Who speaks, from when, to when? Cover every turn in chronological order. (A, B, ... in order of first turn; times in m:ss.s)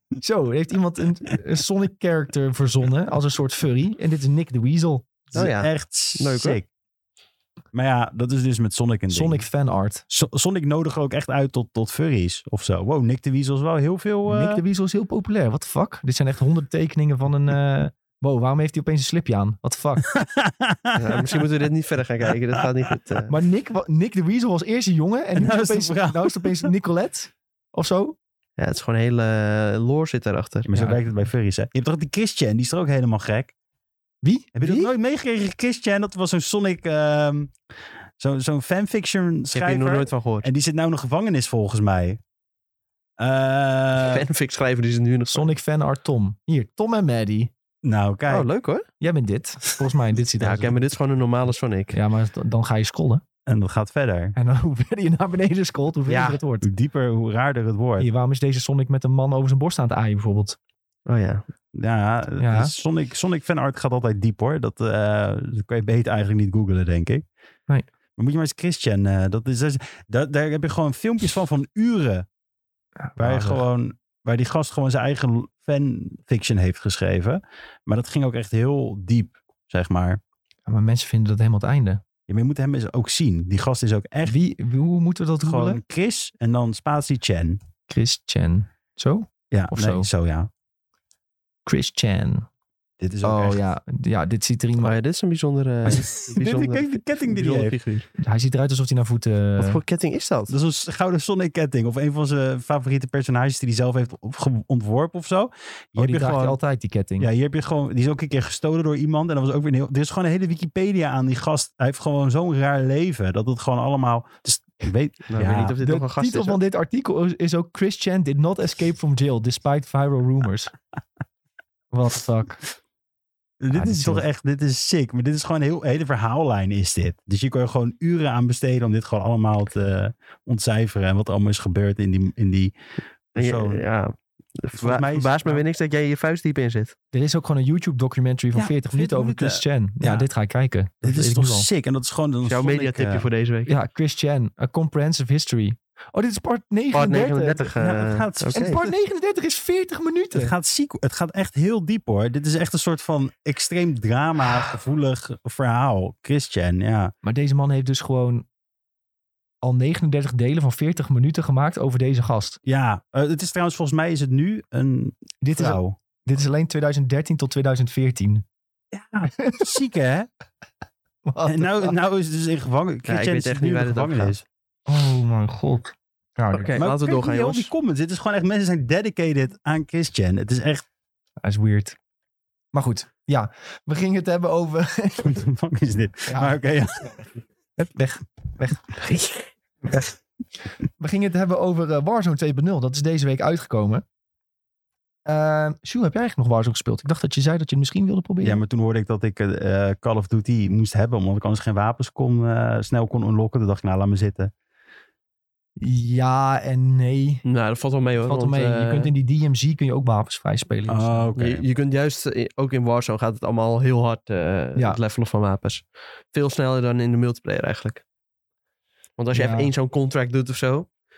0:00.2-0:05.2 A
0:05.3-0:06.6 B
0:05.3-0:06.7 C
0:07.7-0:09.4 C
0:09.1-0:10.0 A
0:10.1-0:14.6 C
0:14.3-0:20.1 A
0:20.1-0:21.5 C
0:21.0-0:23.3 B
0:22.2-0:23.0 C
0:23.3-0:28.2 A
0:25.4-0:26.7 C
0:28.6-0:30.7 B
0:30.7-0:33.5 C
0:30.7-0:31.0 A
0:34.2-0:34.9 A
0:34.6-0:37.5 C
0:38.2-0:42.2 C
0:39.5-0:40.5 B
0:43.2-0:44.3 C
0:44.0-0:45.5 B
0:45.3-0:47.5 A
0:47.8-0:48.5 C
0:48.3-0:48.9 B
0:49.0-0:50.8 A
0:50.4-0:52.0 B
0:51.9-0:53.2 A
0:53.5-0:54.4 C
0:54.4-0:56.7 A
0:56.1-0:56.4 B
0:56.6-0:58.1 C
0:58.0-1:00.6 A
1:01.1-1:01.4 B
1:01.7-1:07.3 C
1:02.4-1:02.7 A
1:08.2-1:12.3 C
1:13.0-1:13.6 A
1:13.2-1:20.2 C
1:20.7-1:22.0 A
1:22.3-1:24.4 C
1:24.3-1:25.8 A
1:25.4-1:27.6 C
1:27.9-1:30.1 A
1:29.5-1:30.5 C
1:31.7-1:32.5 A
1:33.0-1:33.6 C
1:33.2-1:34.9 A
1:34.8-1:38.1 B
1:35.9-1:37.8 C
1:38.2-1:39.8 A
1:39.6-1:40.5 B
1:40.5-1:46.6 C
1:46.0-1:47.3 A
1:47.2-1:55.8 C
1:55.3-1:56.6 B
1:55.8-2:00.7 A
2:01.9-2:02.6 A
2:03.6-2:12.8 C
2:03.7-2:04.2 A
2:13.3-2:13.8 C
2:13.4-2:17.0 B
2:14.7-2:15.6 C
2:17.1-2:21.7 A
2:18.5-2:20.3 C
2:21.0-2:23.3 C
2:22.4-2:23.7 B
2:23.7-2:27.7 A
2:26.9-2:28.8 B
2:27.8-2:28.9 C
2:28.5-2:30.5 A
2:30.3-2:37.1 C
2:37.2-2:38.5 A
2:39.6-2:42.6 A
2:42.6-2:46.0 C
2:45.4-2:48.4 A
2:48.9-2:50.3 C
2:49.4-2:49.7 A
2:51.2-2:52.0 A
2:51.4-2:54.4 C
2:53.1-2:54.4 B
2:54.9-2:56.8 A
2:56.5-2:57.7 B
2:56.8-3:00.8 C
3:01.4-3:02.0 A
3:02.7-3:05.4 A
3:05.2-3:07.3 C
3:06.3-3:06.6 A
3:07.8-3:10.1 A
3:11.0-3:14.0 A
3:15.3-3:18.6 A
3:18.4-3:24.5 C
3:25.8-3:27.4 A
3:27.4-3:29.1 B
3:28.2-3:31.3 A
3:30.9-3:31.6 C
3:31.4-3:38.0 B
3:39.2-3:40.9 B
3:39.3-3:39.7 A